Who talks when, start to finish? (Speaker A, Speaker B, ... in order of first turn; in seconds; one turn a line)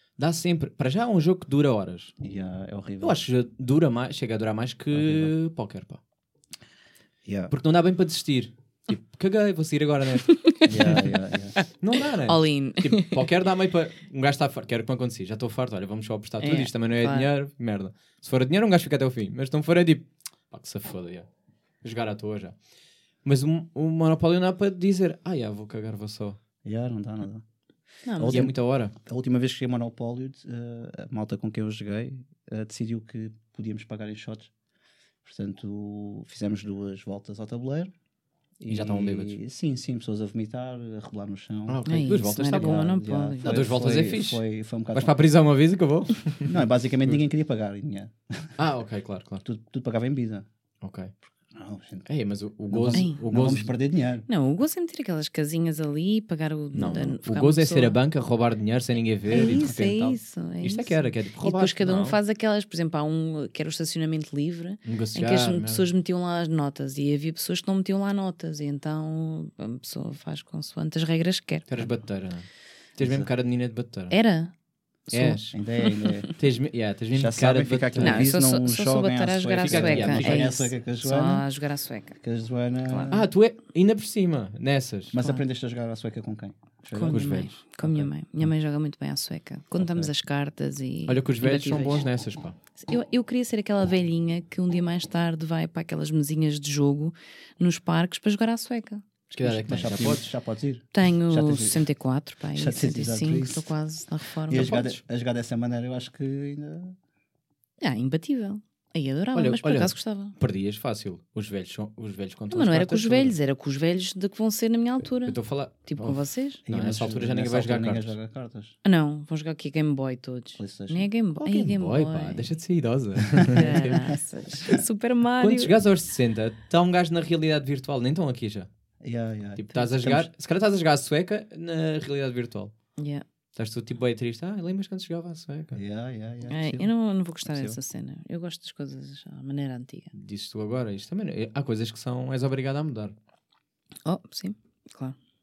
Speaker A: 0.2-2.1
Speaker B: 2.2-3.2
Speaker A: 3.0-6.0
Speaker B: 4.9-5.3
Speaker B: 7.2-7.5
Speaker A: 7.5-11.0
Speaker C: 10.3-11.1
Speaker B: 10.6-11.5
Speaker A: 11.8-21.3
Speaker C: 12.2-13.3
Speaker C: 16.4-17.3
Speaker A: 21.8-22.6
Speaker A: 23.2-26.4
Speaker B: 26.6-27.4
Speaker C: 28.1-28.4
Speaker B: 28.1-34.5
Speaker A: 28.3-28.9
Speaker B: 35.2-37.9
Speaker B: 38.6-41.8
Speaker A: 38.7-39.4
Speaker A: 41.7-42.8
Speaker C: 41.9-43.5
Speaker B: 42.5-45.2
Speaker A: 43.4-44.4
Speaker A: 44.9-47.2
Speaker B: 46.5-48.5
Speaker A: 48.6-49.4
Speaker B: 49.4-50.5
Speaker A: 50.8-51.1
Speaker B: 51.5-52.1
Speaker A: 52.0-53.7
Speaker B: 52.7-54.2
Speaker C: 52.9-53.2
Speaker C: 54.3-58.0
Speaker A: 56.7-62.2
Speaker C: 59.3-71.9
Speaker B: 59.3-59.8
Speaker A: 64.8-65.8
Speaker A: 71.7-74.2
Speaker B: 73.0-73.3
Speaker C: 74.1-74.5
Speaker C: 75.1-76.3
Speaker A: 75.1-75.5
Speaker B: 75.5-76.3
Speaker A: 76.3-78.3
Speaker B: 77.1-81.5
Speaker C: 78.0-82.2
Speaker A: 79.6-80.5
Speaker B: 82.2-83.3
Speaker A: 83.1-85.2
Speaker B: 85.1-88.0
Speaker C: 85.2-85.4
Speaker C: 86.9-92.0
Speaker A: 87.0-88.0
Speaker B: 89.8-90.1
Speaker A: 91.1-92.5
Speaker C: 92.8-99.0
Speaker A: 99.3-100.3
Speaker B: 99.4-101.8
Speaker C: 100.9-105.0
Speaker B: 102.5-103.7
Speaker B: 104.5-107.0
Speaker C: 107.8-110.3
Speaker A: 109.3-113.3
Speaker C: 112.5-116.6
Speaker A: 115.2-118.2
Speaker B: 116.7-118.8
Speaker C: 118.8-122.5
Speaker B: 120.6-121.1
Speaker A: 121.4-124.0
Speaker B: 123.3-124.8
Speaker C: 123.5-125.7
Speaker A: 125.4-128.7
Speaker B: 129.0-130.3
Speaker A: 129.5-132.7
Speaker C: 133.0-133.2
Speaker A: 133.5-135.8
Speaker B: 135.7-136.9
Speaker C: 136.5-140.1
Speaker B: 137.4-137.8
Speaker A: 140.1-143.1
Speaker C: 144.0-145.2